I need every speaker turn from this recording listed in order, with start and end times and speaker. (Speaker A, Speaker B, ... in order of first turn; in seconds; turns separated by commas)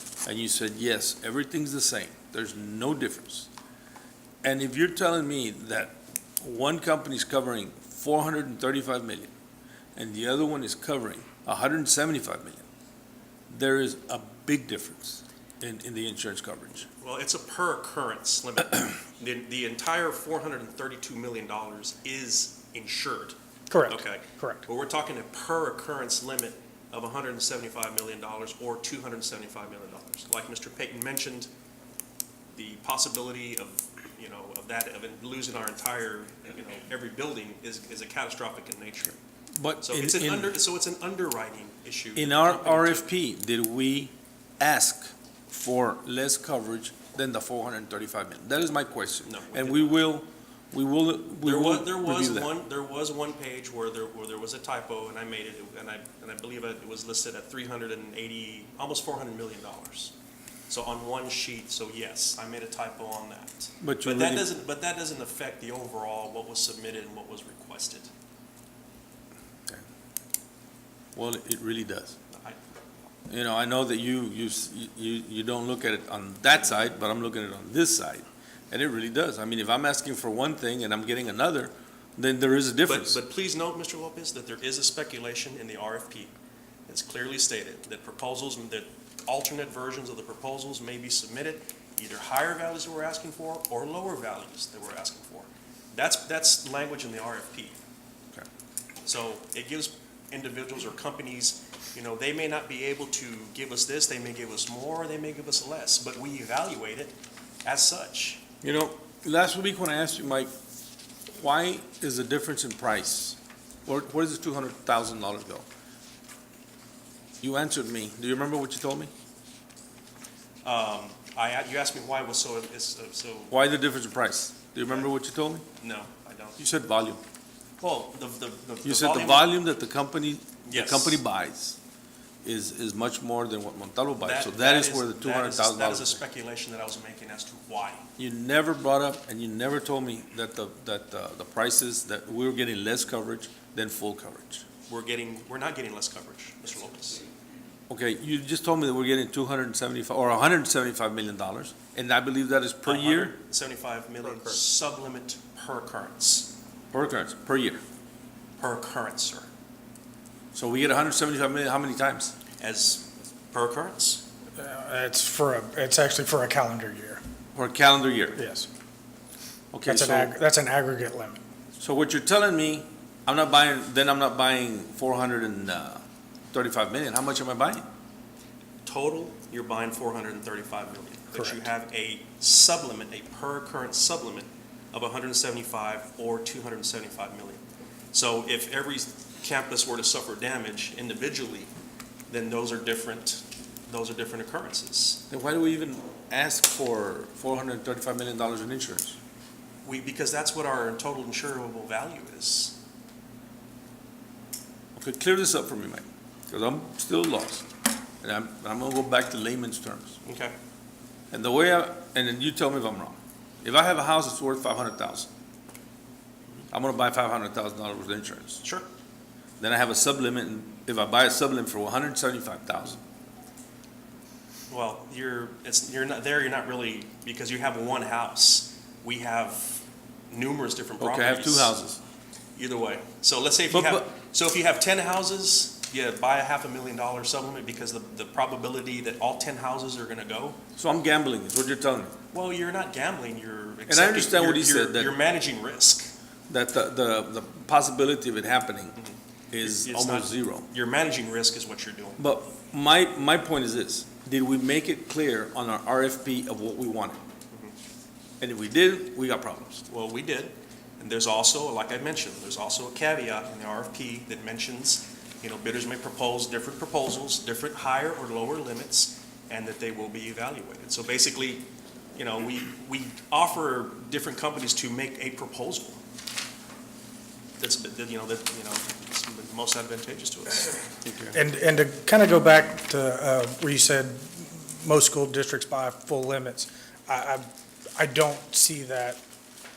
Speaker A: 0.2-3.5, Speaker A: 4.4-9.3, Speaker A: 9.9-12.6, Speaker A: 13.5-16.9, Speaker B: 17.0-31.5, Speaker C: 23.7-24.6, Speaker B: 32.5-39.2, Speaker A: 39.5-40.5, Speaker B: 39.8-43.1, Speaker A: 42.1-52.5, Speaker B: 49.2-50.0, Speaker B: 51.4-60.1, Speaker B: 60.7-68.1, Speaker A: 63.8-64.5, Speaker A: 71.2-72.2, Speaker B: 72.3-72.6, Speaker A: 73.3-83.2, Speaker B: 82.8-86.3, Speaker B: 86.9-97.8, Speaker B: 99.0-108.4, Speaker A: 108.6-110.5, Speaker A: 111.3-115.7, Speaker A: 117.4-119.1, Speaker B: 120.6-123.5, Speaker A: 123.5-125.6, Speaker B: 125.8-126.6, Speaker A: 126.6-127.2, Speaker B: 127.8-129.5, Speaker A: 128.8-131.8, Speaker B: 130.7-131.2, Speaker A: 132.4-136.2, Speaker B: 134.2-138.0, Speaker A: 138.2-144.6, Speaker B: 144.9-147.2, Speaker A: 147.9-153.3, Speaker B: 152.8-156.5, Speaker A: 156.9-157.8, Speaker B: 158.6-159.5, Speaker A: 160.5-162.3, Speaker B: 162.6-164.2, Speaker C: 164.6-167.2, Speaker A: 167.5-168.4, Speaker C: 168.4-168.7, Speaker A: 169.7-170.3, Speaker C: 169.9-171.4, Speaker A: 171.8-177.8, Speaker B: 178.8-191.7, Speaker C: 181.3-181.7, Speaker B: 192.3-195.2, Speaker A: 195.3-199.2, Speaker B: 199.8-202.8, Speaker A: 204.9-207.7, Speaker A: 208.2-210.2, Speaker B: 210.2-210.5, Speaker A: 211.3-215.3, Speaker A: 216.7-218.6, Speaker A: 219.6-223.0, Speaker B: 224.7-231.7, Speaker A: 231.0-232.0, Speaker B: 232.6-240.6, Speaker A: 233.7-234.1, Speaker A: 240.8-242.2, Speaker B: 242.3-246.1, Speaker A: 243.9-245.1, Speaker A: 246.5-249.0, Speaker B: 248.9-252.2, Speaker A: 249.5-250.7, Speaker A: 252.2-257.2, Speaker A: 258.4-259.8, Speaker B: 259.9-276.0, Speaker B: 277.6-280.9, Speaker A: 281.0-281.3, Speaker C: 281.3-289.2